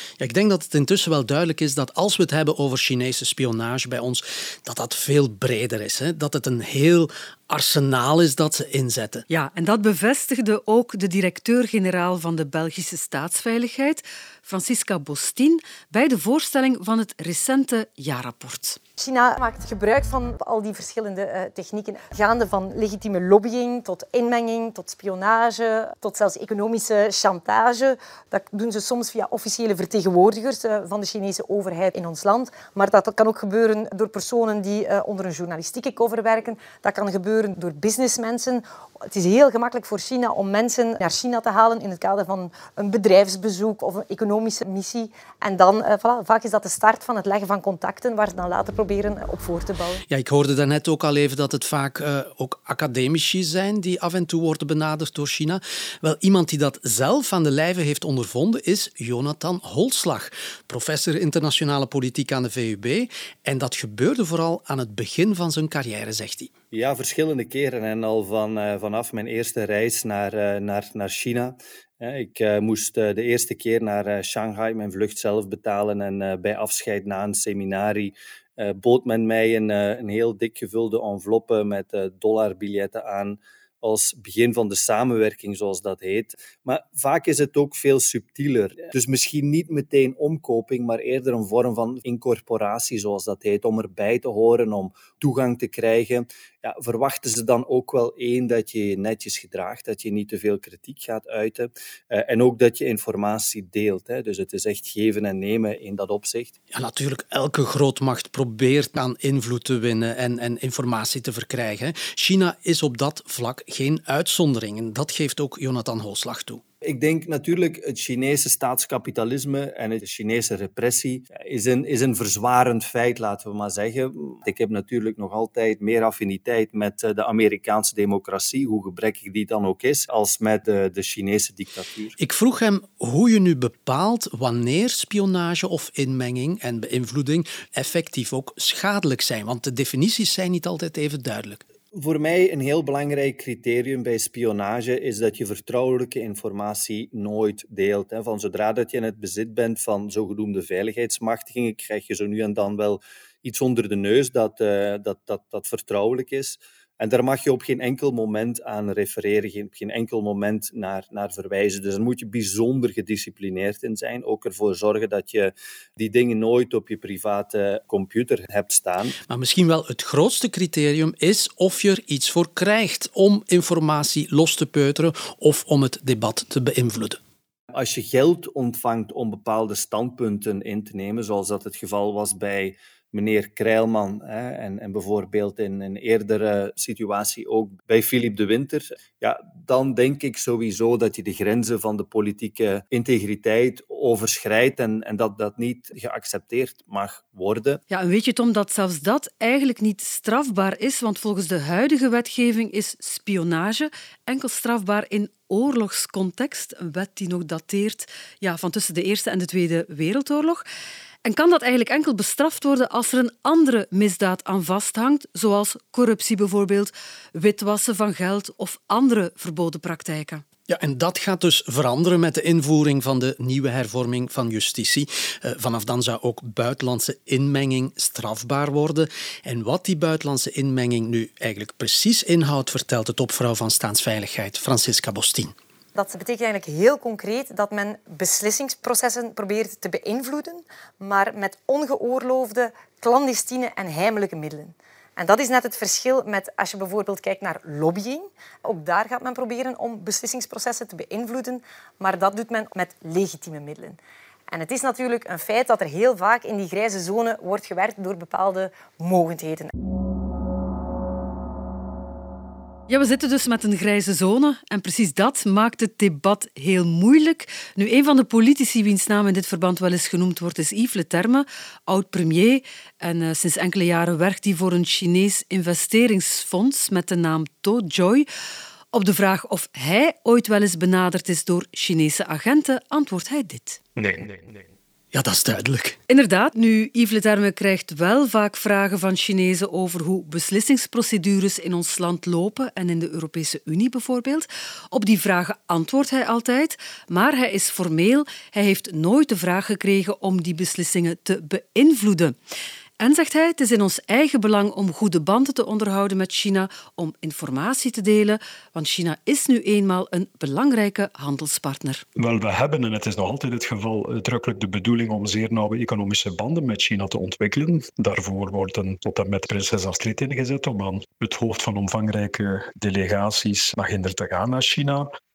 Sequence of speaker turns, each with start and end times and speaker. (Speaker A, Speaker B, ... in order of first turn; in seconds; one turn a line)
Speaker A: 0.2-9.2
Speaker B: 9.3-18.8
Speaker C: 19.0-50.0
Speaker A: 50.1-66.5
Speaker D: 66.7-106.6
Speaker A: 106.7-116.6
Speaker D: 116.8-132.2
Speaker A: 132.2-141.6
Speaker D: 141.9-169.2
Speaker A: 169.3-177.2
Speaker D: 177.7-197.8
Speaker B: 197.9-210.6
Speaker B: 211.2-220.4
Speaker A: 220.7-235.5
Speaker C: 235.9-259.7
Speaker B: 262.9-278.3
Speaker B: 278.9-283.8
Speaker E: 284.0-284.7
Speaker A: 285.1-286.0
Speaker B: 286.1-302.4
Speaker B: 303.0-312.0
Speaker E: 312.2-325.1